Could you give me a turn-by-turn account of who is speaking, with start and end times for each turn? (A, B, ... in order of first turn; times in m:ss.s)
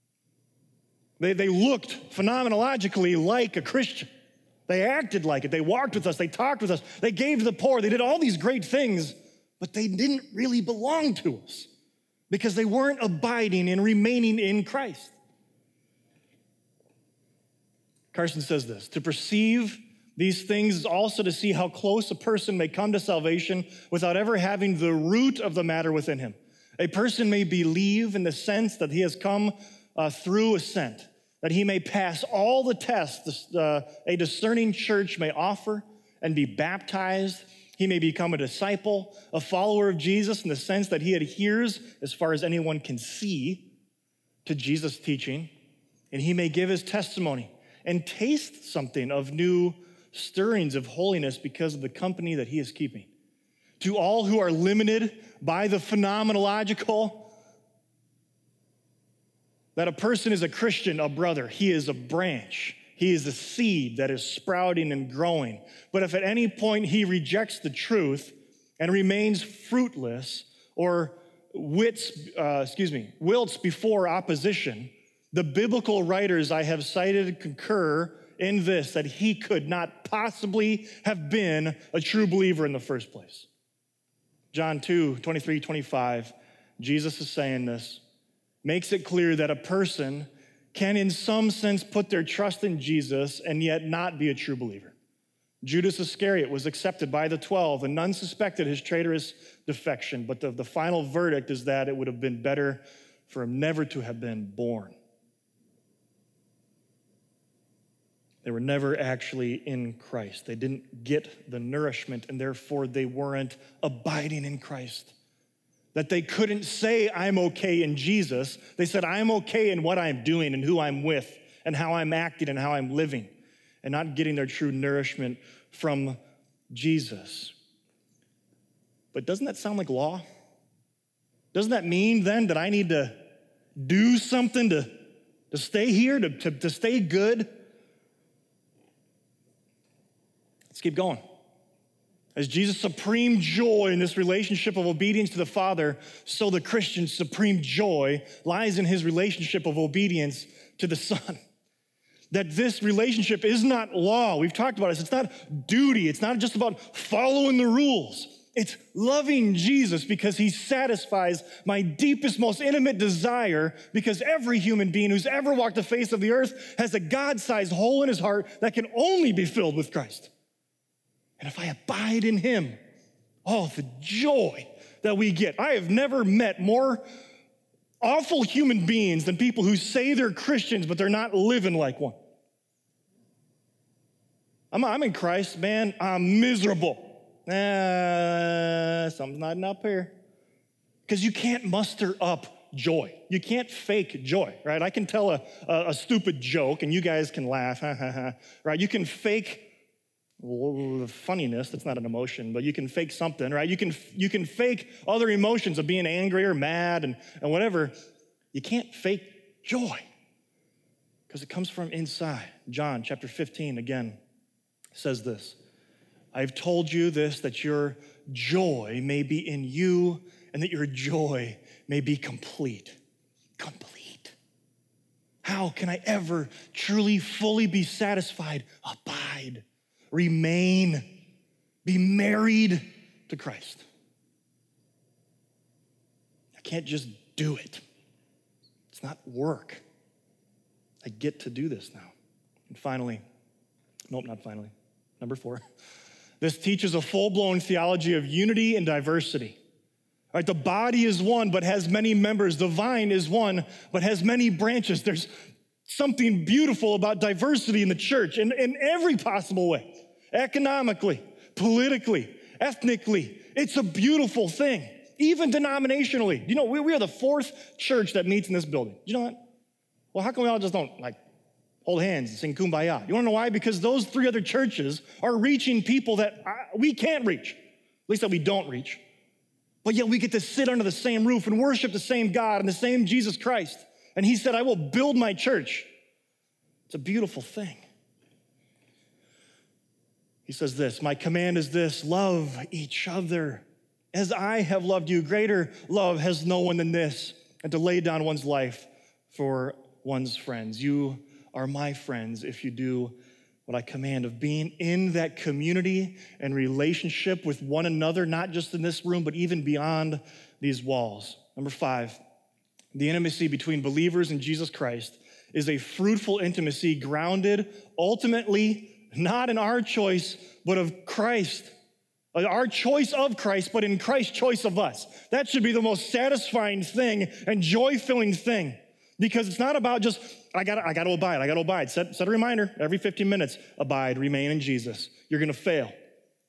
0:01.2-0:04.1 A
0:04.7-0:11.7 A
0:12.3-0:15.2 A
0:18.1-0:43.7 A
0:44.4-0:45.5 A
0:46.1-0:53.1 A
0:53.8-0:57.3 A
0:59.8-1:23.5 A
1:24.5-1:28.0 A
1:28.6-1:34.9 A
1:35.6-1:45.0 A
1:48.4-1:55.1 A
1:55.9-2:07.5 A
2:09.1-2:10.2 A
2:11.5-2:13.2 A
2:13.8-2:17.5 A
2:20.7-2:21.2 A
2:22.3-2:31.4 A
2:32.3-2:50.3 A
2:51.4-2:52.8 A
2:53.4-2:57.0 A
2:58.0-3:02.2 A
3:04.7-3:10.2 A
3:11.1-3:19.7 A
3:20.4-3:27.9 A
3:28.5-3:30.0 A
3:31.3-3:34.2 A
3:34.9-3:35.6 A
3:36.3-3:43.0 A
3:43.6-3:44.4 A
3:45.4-3:51.1 A
3:51.8-3:53.8 A
3:56.5-3:57.8 A
3:58.9-3:59.8 A
4:01.0-4:02.1 A
4:02.7-4:03.2 A
4:04.1-4:05.6 A
4:06.4-4:09.6 A
4:10.3-4:15.3 A
4:15.8-4:29.4 A
4:30.1-4:31.2 A
4:31.8-4:39.0 A
4:39.8-4:45.9 A
4:46.9-4:47.8 A
4:50.4-5:12.2 A
5:12.9-5:21.7 A
5:22.3-5:35.9 A